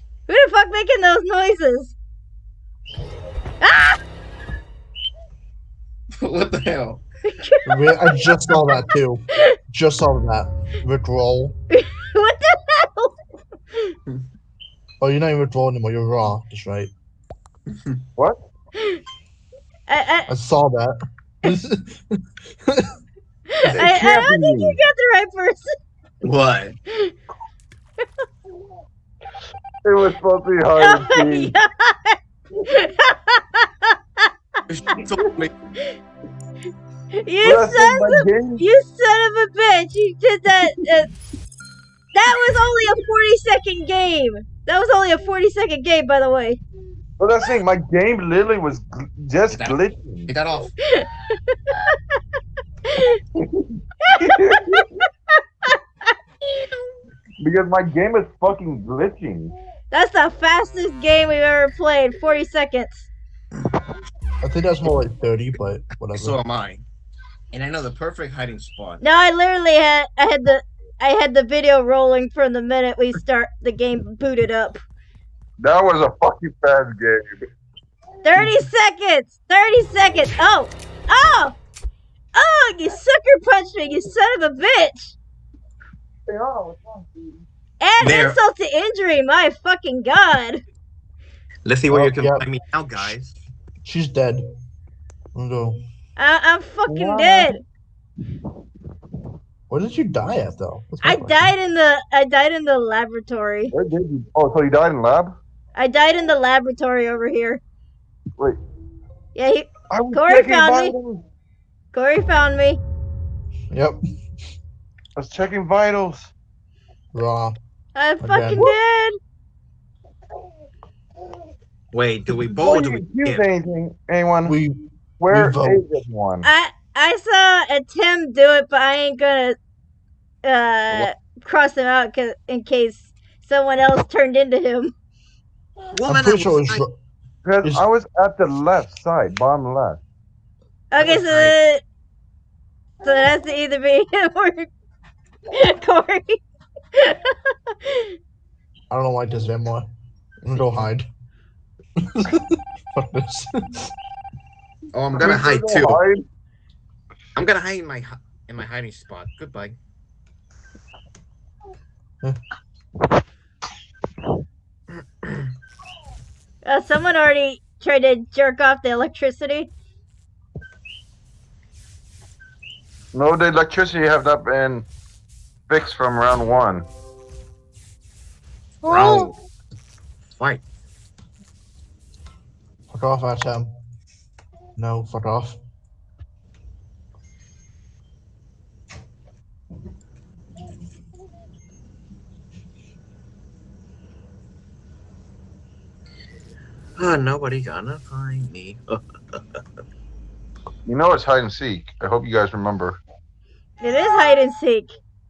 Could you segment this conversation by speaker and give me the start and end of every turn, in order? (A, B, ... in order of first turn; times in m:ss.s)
0:00.3-0:01.9 A
0:03.6-0:04.0 A
0:06.2-0:07.0 B
0:07.3-0:07.9 A
0:07.6-0:11.6 C
0:11.7-0:13.1 A
0:15.0-0:16.9 C
0:19.9-0:20.3 A
0:20.3-0:22.9 C
0:23.5-0:25.8 A
0:23.7-0:24.8 D
0:26.2-0:26.8 B
0:29.8-0:31.5 D
0:30.8-0:34.3 A
0:34.7-0:35.5 B
0:37.2-0:41.1 A
0:37.4-0:38.6 D
0:42.1-0:46.6 A
0:47.2-0:50.3 D
0:49.5-0:50.7 B
0:50.8-0:51.9 A
0:52.9-0:53.2 A
0:54.1-0:54.8 A
0:54.2-0:54.8 D
0:57.4-0:59.5 D
0:59.9-1:03.1 A
1:04.4-1:06.4 C
1:06.1-1:06.8 B
1:07.5-1:09.0 B
1:09.0-1:14.8 A
1:15.6-1:17.4 D
1:18.2-1:21.6 A
1:22.3-1:25.2 A
1:26.3-1:27.4 D
1:27.8-1:30.6 A
1:28.0-1:28.4 B
1:31.6-1:33.4 B
1:32.0-1:32.5 C
1:33.8-1:34.4 C
1:35.3-1:35.8 C
1:36.2-1:37.6 A
1:36.9-1:37.5 D
1:39.7-1:41.5 C
1:41.0-1:43.7 A
1:43.7-1:45.4 D
1:45.8-1:47.6 A
1:49.3-1:50.9 A
1:49.9-1:51.2 D
1:51.9-1:52.8 A
1:53.7-1:54.0 C
1:55.2-1:56.3 D
1:57.1-1:57.6 C
1:57.9-1:59.2 A
1:58.2-1:58.7 C
2:01.9-2:03.4 B
2:02.5-2:04.6 D
2:04.4-2:04.8 C
2:05.2-2:06.5 D
2:05.3-2:05.9 C
2:06.4-2:09.6 A
2:10.4-2:14.9 A
2:15.9-2:16.8 B
2:16.1-2:16.9 C
2:17.4-2:20.0 D
2:20.9-2:21.8 A
2:21.0-2:21.6 B
2:23.0-2:24.7 A
2:25.5-2:26.4 A
2:26.9-2:28.1 A
2:28.9-2:29.9 C
2:30.4-2:31.1 C
2:32.0-2:33.9 C
2:34.9-2:36.0 B
2:35.2-2:36.2 D
2:37.3-2:39.8 B
2:46.6-2:49.7 A
2:53.1-2:54.9 D
2:55.7-2:56.9 D
2:58.8-2:59.3 B
3:02.9-3:03.7 C
3:04.8-3:05.6 C
3:17.0-3:19.4 B
3:20.9-3:23.0 D
3:23.8-3:24.9 A